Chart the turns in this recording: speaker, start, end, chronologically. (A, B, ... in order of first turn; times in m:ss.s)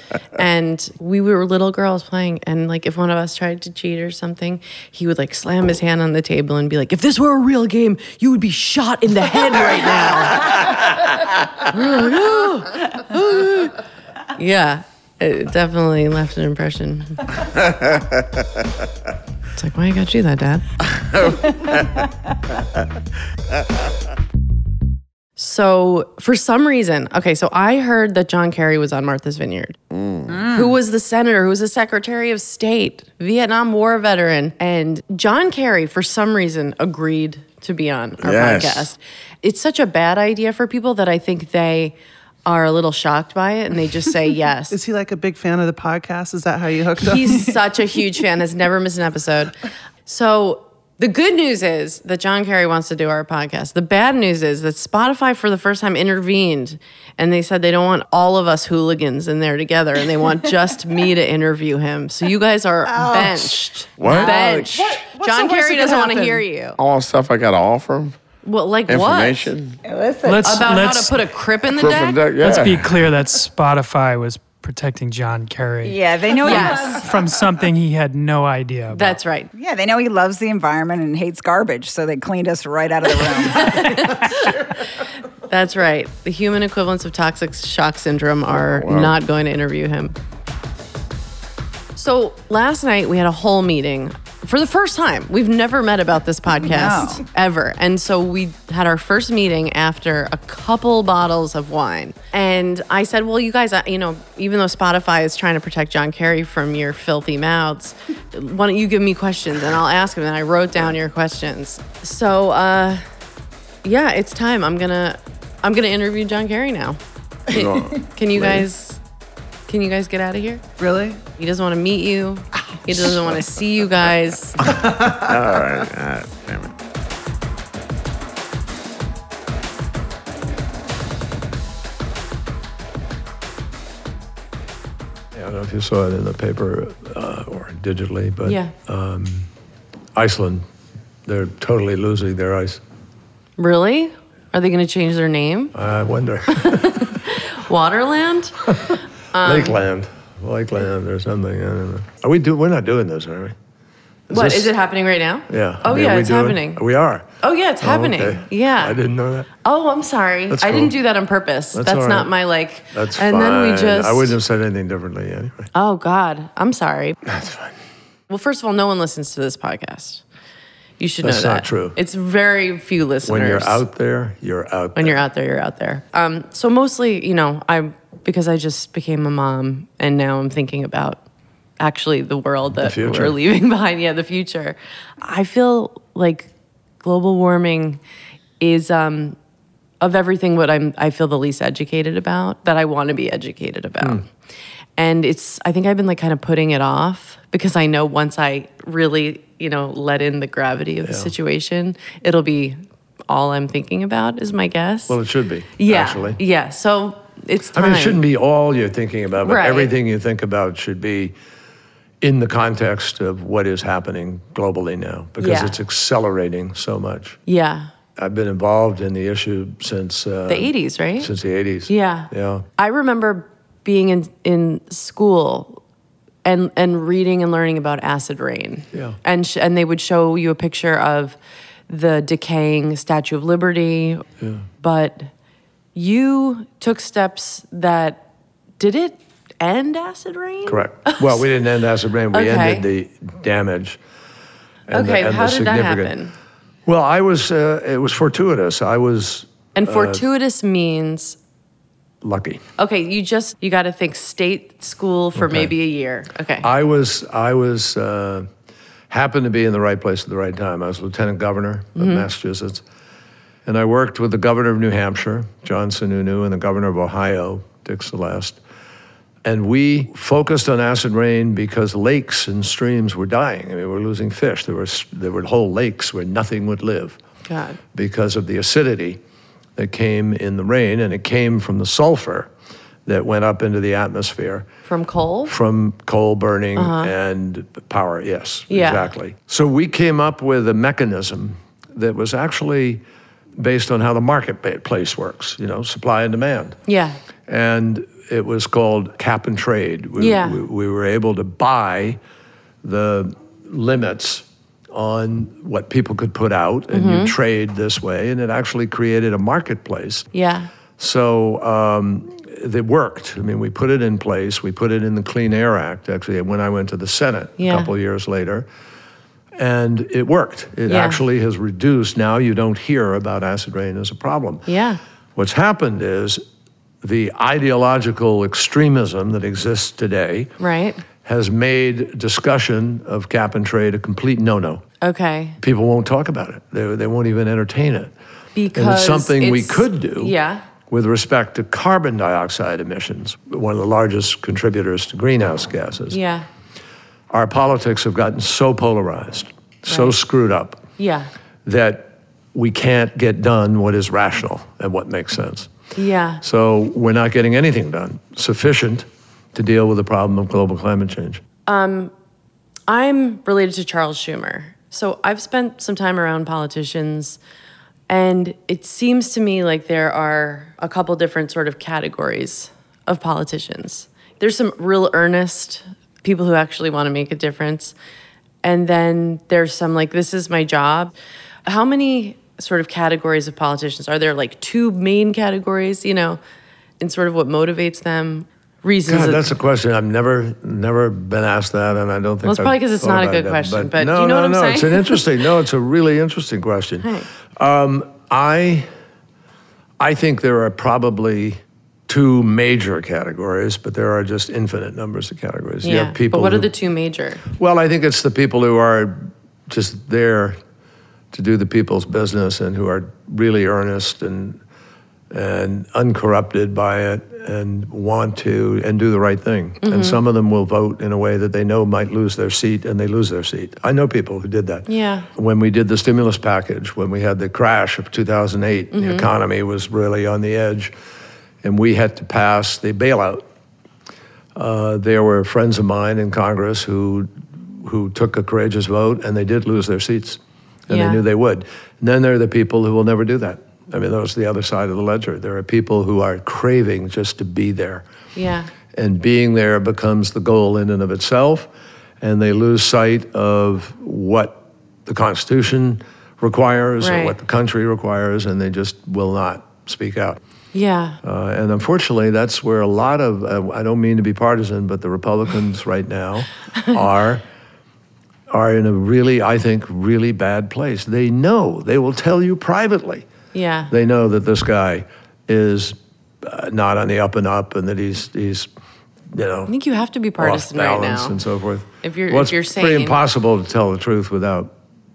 0:00.3-0:11.0 A
0:11.6-0:13.8 A
0:14.3-0:17.4 A
0:17.6-0:18.4 B
0:19.6-0:20.6 A
0:20.8-0:22.7 B
0:25.4-0:29.8 A
0:29.9-0:30.4 B
0:30.3-0:30.8 C
0:30.5-0:44.8 A
0:38.2-0:38.9 B
0:44.7-0:47.5 D
0:47.0-0:49.5 A
0:50.0-1:06.8 A
1:02.9-1:03.5 C
1:04.0-1:04.4 B
1:04.0-1:06.5 D
1:04.0-1:04.3 C
1:06.8-1:08.2 B
1:08.4-1:09.5 A
1:08.9-1:09.8 B
1:09.8-1:10.7 C
1:10.2-1:11.2 E
1:10.4-1:12.2 A
1:11.7-1:12.9 B
1:12.4-1:19.2 E
1:15.8-1:17.2 C
1:16.4-1:17.0 A
1:18.9-1:19.5 A
1:19.5-1:24.6 C
1:23.6-1:24.6 A
1:25.5-1:30.1 A
1:28.5-1:29.2 B
1:32.0-1:53.0 A
1:36.6-1:37.2 C
1:53.8-1:59.0 A
1:57.5-1:58.6 B
1:59.7-2:00.6 A
2:00.8-2:01.2 D
2:01.4-2:04.7 A
2:04.6-2:05.3 D
2:04.7-2:06.7 B
2:15.3-2:19.5 F
2:18.4-2:18.7 A
2:20.1-2:20.6 F
2:21.2-2:22.8 F
2:23.6-2:25.7 A
2:25.7-2:27.1 F
2:26.5-2:29.8 A
2:29.4-2:33.5 F
2:34.3-2:34.7 F
2:34.3-2:36.8 A
2:35.5-2:37.3 F
2:37.4-2:39.0 A
2:37.8-2:39.5 F
2:39.6-2:44.4 A
2:40.5-2:40.9 F
2:41.7-2:42.3 F
2:42.9-2:45.7 F
2:45.7-2:47.2 A
2:47.2-2:47.8 F
2:48.3-2:50.2 A
2:51.0-2:53.8 A
2:51.2-2:52.0 F
2:53.2-2:55.2 F
2:54.9-3:01.2 A
3:01.8-3:06.5 A
3:02.8-3:03.4 F
3:07.0-3:08.0 A
3:08.6-3:09.4 A
3:10.0-3:14.3 A
3:15.0-3:25.2 A
3:21.0-3:21.3 F
3:25.1-3:26.4 F
3:25.8-3:28.2 A
3:27.7-3:31.3 F
3:29.4-3:29.9 A
3:32.2-3:37.4 F
3:35.4-3:35.8 A
3:37.5-3:37.9 A
3:38.2-3:42.6 F
3:40.5-3:41.3 A
3:41.9-3:45.8 A
3:46.4-3:51.4 A
3:51.9-3:54.2 A
3:54.8-3:55.3 A
3:55.9-3:58.2 A
3:58.8-4:01.4 A
4:00.6-4:04.0 F
4:02.3-4:02.9 A
4:04.9-4:06.1 F
4:04.9-4:06.3 A
4:06.8-4:10.2 F
4:09.7-4:11.4 A
4:12.2-4:12.6 F
4:12.8-4:16.7 A
4:15.3-4:15.7 F
4:16.6-4:18.5 F
4:19.1-4:22.8 F
4:22.0-4:22.2 A
4:23.6-4:28.6 F
4:29.4-4:37.2 F
4:37.4-4:37.8 A
4:37.9-4:39.2 F
4:39.8-4:42.5 F
4:43.0-4:44.7 F
4:44.9-4:45.5 A
4:45.5-4:53.0 F
4:46.8-4:47.1 A
4:48.7-4:49.1 A
4:53.6-4:56.8 F
4:56.9-4:57.2 A
4:57.5-5:02.2 F
5:00.2-5:00.6 A
5:02.8-5:10.3 F
5:06.9-5:07.3 A
5:10.3-5:10.7 A
5:11.0-5:18.7 F
5:17.6-5:17.9 A
5:19.6-5:24.7 F
5:20.9-5:21.2 A
5:24.7-5:25.0 A
5:25.4-5:26.4 F
5:27.0-5:30.5 F
5:30.6-5:31.0 A
5:31.2-5:34.8 F
5:35.0-5:35.6 A
5:35.6-5:38.1 F
5:38.6-5:40.6 A
5:38.7-5:40.3 F
5:40.9-5:46.2 F
5:46.1-5:46.4 A
5:47.3-5:50.8 F
5:49.9-5:50.1 A
5:51.0-5:51.3 A
5:51.6-5:55.7 F
5:55.9-5:56.4 A
5:56.4-6:01.4 F
6:01.6-6:02.1 A
6:02.9-6:07.4 A
6:08.1-6:17.9 A
6:18.6-6:21.1 A
6:21.6-6:26.4 A
6:27.0-6:29.5 A
6:29.0-6:38.9 F
6:32.4-6:35.2 A
6:40.0-6:46.7 F
6:45.8-6:47.4 A
6:47.5-6:50.6 F
6:51.3-6:54.6 F
6:55.3-7:10.9 F
6:59.8-7:00.2 A
7:04.9-7:05.3 A
7:08.9-7:09.3 A
7:11.6-7:13.4 F
7:14.6-7:28.0 F
7:20.9-7:21.2 A
7:28.4-7:28.7 A
7:28.9-7:31.7 F
7:32.2-7:40.4 F
7:37.0-7:37.4 A
7:40.7-7:41.2 A
7:41.2-7:47.4 F
7:48.5-7:53.3 F
7:53.5-7:53.9 A
7:53.9-7:58.7 F
7:59.3-7:59.7 F
7:59.7-8:01.4 A
8:00.4-8:04.7 F
8:02.0-8:03.2 A